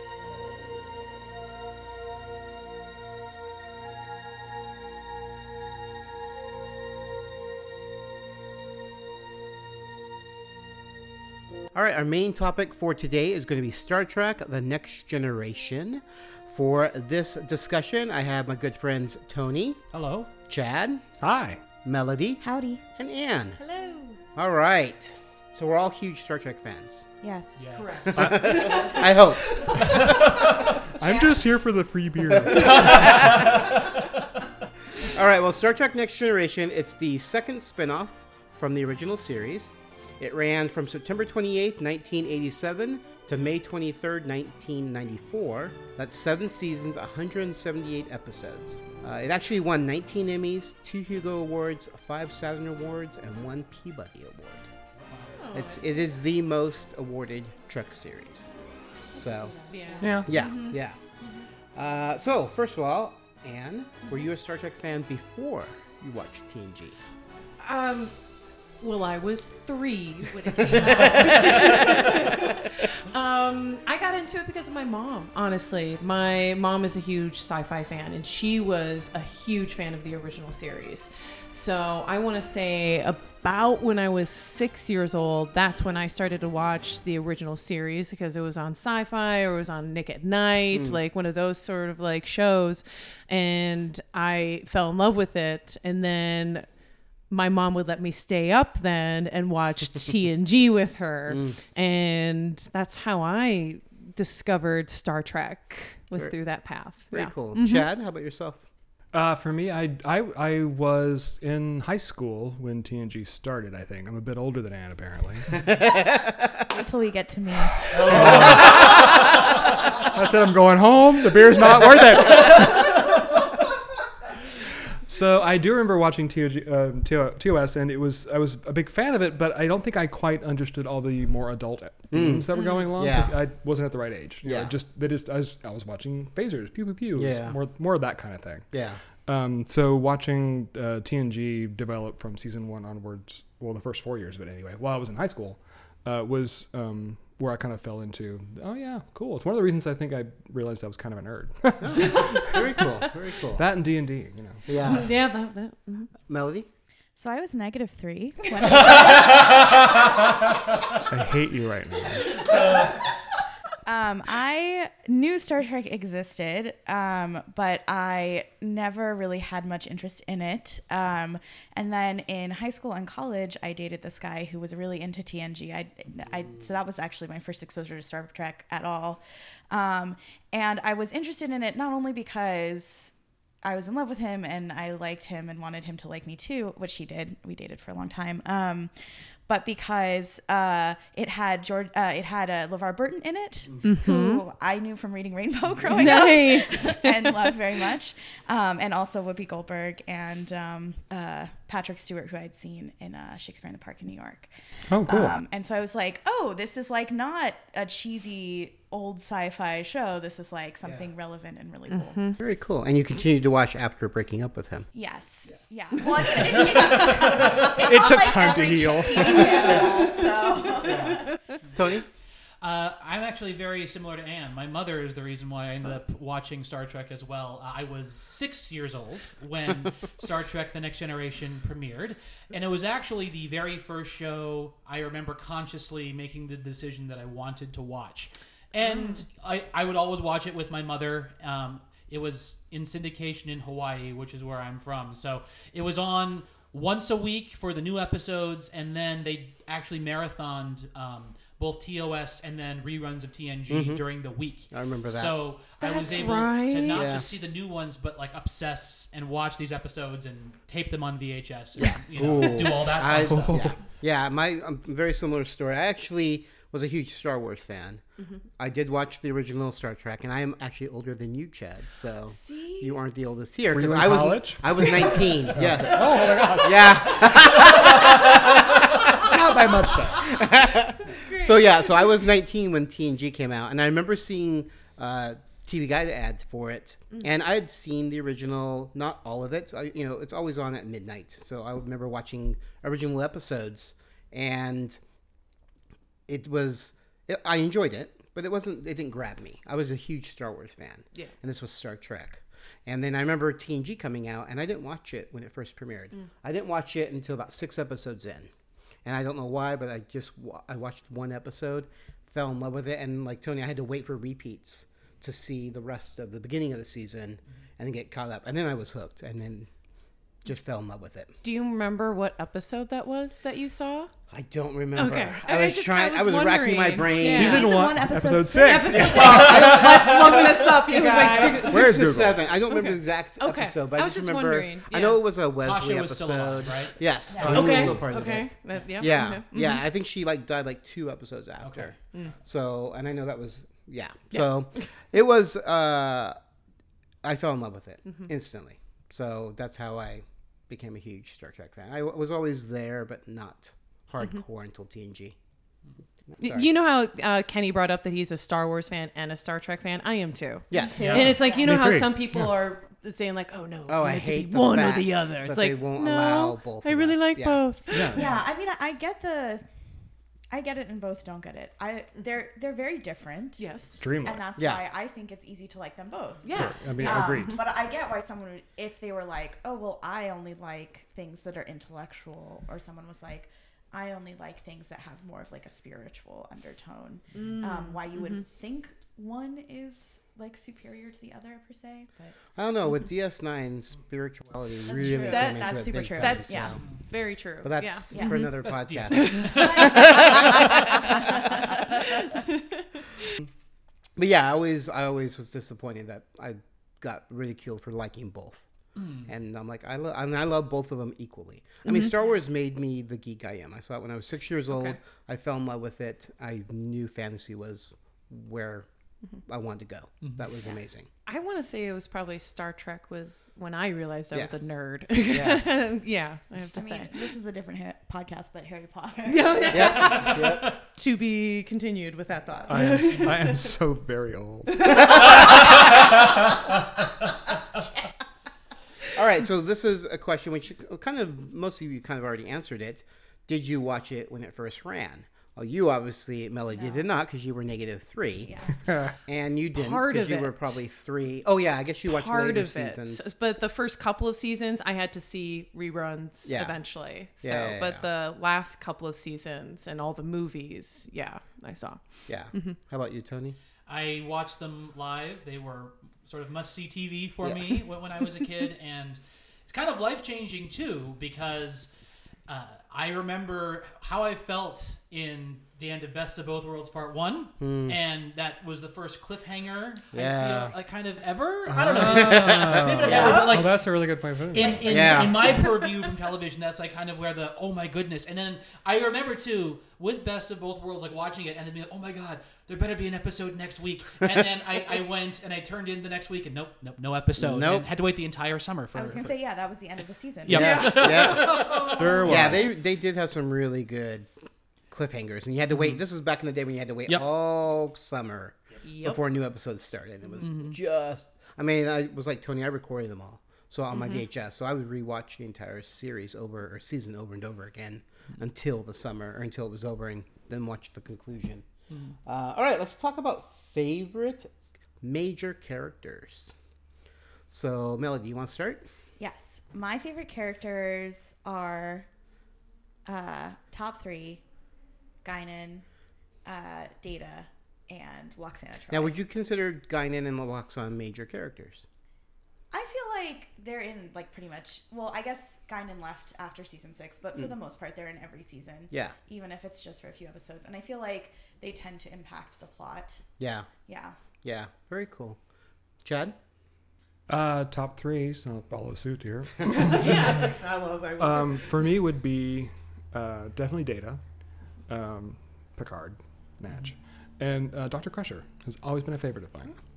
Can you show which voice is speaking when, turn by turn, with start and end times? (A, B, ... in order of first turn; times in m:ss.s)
0:11.7-0:19.8 A
0:19.9-0:20.3 B
0:20.5-0:21.0 A
0:21.2-0:21.6 C
0:21.8-0:22.4 A
0:22.4-0:22.8 D
0:23.0-0:23.6 A
0:23.6-0:24.2 E
0:24.3-0:27.1 A
0:27.2-0:27.6 D
0:27.6-0:28.1 B
0:27.7-0:30.6 E
0:28.0-0:29.8 A
0:28.1-0:28.8 C
0:29.8-0:33.6 C
0:31.0-0:31.4 D
0:32.3-0:33.5 A
0:33.1-0:33.5 B
0:35.0-0:54.7 A
0:55.0-0:55.4 B
0:55.4-0:55.8 E
0:55.5-0:58.5 A
0:59.2-0:59.6 A
0:59.7-1:00.8 E
1:00.0-1:00.3 C
1:00.2-1:01.0 A
1:01.7-1:07.0 A
1:07.6-1:08.1 E
1:08.8-1:36.7 E
1:10.6-1:11.8 A
1:30.7-1:31.0 A
1:37.3-1:47.9 E
1:41.3-1:41.6 A
1:47.1-1:48.7 A
1:49.1-1:55.7 C
1:56.7-1:58.6 D
1:57.8-1:59.1 C
1:57.9-1:58.9 B
1:59.9-2:03.0 C
2:05.0-2:18.7 C
2:12.1-2:13.3 A
2:14.4-2:14.7 A
2:17.2-2:17.6 A
2:18.7-2:19.0 A
2:19.2-2:32.7 C
2:31.8-2:33.6 A
2:33.5-2:34.7 C
2:34.7-2:35.1 A
2:34.8-2:36.1 E
2:36.3-2:36.7 A
2:37.2-2:39.5 D
2:41.1-2:42.4 C
2:43.8-2:59.2 D
2:59.7-3:03.1 D
3:03.6-3:08.9 D
3:09.5-3:24.5 D
3:13.8-3:14.4 E
3:15.8-3:17.5 E
3:24.9-3:25.4 C
3:25.0-3:32.3 D
3:31.9-3:32.4 E
3:32.4-3:34.9 A
3:34.9-3:41.3 D
3:37.0-3:39.8 C
3:40.8-3:42.1 A
3:42.6-4:23.7 B
3:58.8-3:59.2 E
4:13.7-4:14.0 A
4:14.7-4:15.4 A
4:15.8-4:17.1 E
4:16.9-4:17.3 A
4:21.8-4:28.0 A
4:22.3-4:22.6 C
4:23.2-4:23.7 C
4:28.6-4:39.4 A
4:32.3-4:32.9 E
4:33.7-4:40.3 C
4:40.1-4:55.0 A
4:41.0-4:41.7 E
4:56.3-5:08.5 A
5:09.0-5:19.7 A
5:20.4-5:21.3 A
5:21.4-5:24.1 E
5:24.3-5:27.7 A
5:25.0-5:27.9 E
5:27.2-5:29.5 D
5:27.3-5:29.7 C
5:28.6-5:32.0 E
5:29.1-5:46.4 A
5:31.6-5:32.5 C
5:32.6-5:35.0 E
5:35.0-5:38.0 B
5:37.4-5:38.0 C
5:37.5-5:39.8 E
5:41.6-5:41.9 B
5:47.2-5:55.4 A
5:56.3-5:56.7 A
5:56.4-6:08.3 E
6:00.7-6:01.3 A
6:00.8-6:01.8 D
6:01.0-6:01.4 B
6:01.1-6:02.6 C
6:03.9-6:07.6 A
6:07.9-6:08.3 C
6:08.1-6:09.6 D
6:10.5-6:32.3 D
6:13.6-6:14.0 E
6:14.0-6:14.4 C
6:16.4-6:17.5 E
6:16.5-6:17.6 C
6:27.3-6:28.4 E
6:32.6-6:36.8 A
6:34.9-6:36.8 D
6:34.9-6:38.6 E
6:37.6-6:41.7 A
6:38.1-6:38.5 D
6:38.6-6:40.3 B
6:39.1-6:43.3 E
6:44.2-6:48.7 A
6:49.0-6:49.3 B
6:49.2-6:58.9 A
6:59.4-7:01.1 A
7:01.2-7:07.3 E
7:05.2-7:05.8 A
7:06.7-7:10.1 D
7:09.2-7:13.7 E
7:09.7-7:10.7 A
7:12.7-7:15.0 C
7:14.7-7:15.7 E
7:19.1-7:28.5 A
7:26.8-7:27.0 D
7:28.4-7:28.8 D
7:28.9-7:29.1 C
7:29.2-7:33.3 A
7:29.7-7:30.8 E
7:32.0-7:42.8 E
7:36.4-7:36.8 A
7:37.4-7:38.0 A
7:42.3-7:43.6 A
7:43.9-7:51.9 B
7:47.4-7:47.7 A
7:52.5-8:03.8 B
7:57.6-7:58.0 A
8:00.1-8:00.7 A
8:01.7-8:05.1 C
8:01.8-8:03.5 A
8:03.1-8:03.6 E
8:04.5-8:19.3 B
8:04.9-8:05.7 A
8:17.4-8:17.8 A
8:18.9-8:20.8 D
8:20.4-8:22.0 B
8:20.5-8:24.3 A
8:20.6-8:22.4 E
8:21.8-8:22.7 C
8:24.9-8:41.6 A
8:28.8-8:29.2 E
8:30.4-8:30.7 B
8:42.2-8:46.5 A
8:47.5-8:48.8 A
8:49.2-8:52.1 D
8:53.1-8:54.4 D
8:55.2-8:55.8 D
8:56.4-8:59.2 D
8:58.9-9:01.9 A
9:02.7-9:13.2 D
9:08.9-9:09.2 A
9:13.4-9:13.7 A
9:13.8-9:14.2 D
9:14.4-9:15.4 A
9:16.0-9:16.4 A
9:17.3-9:20.5 C
9:19.7-9:20.6 E
9:20.0-9:21.5 A
9:21.2-9:24.2 C
9:24.9-9:29.7 C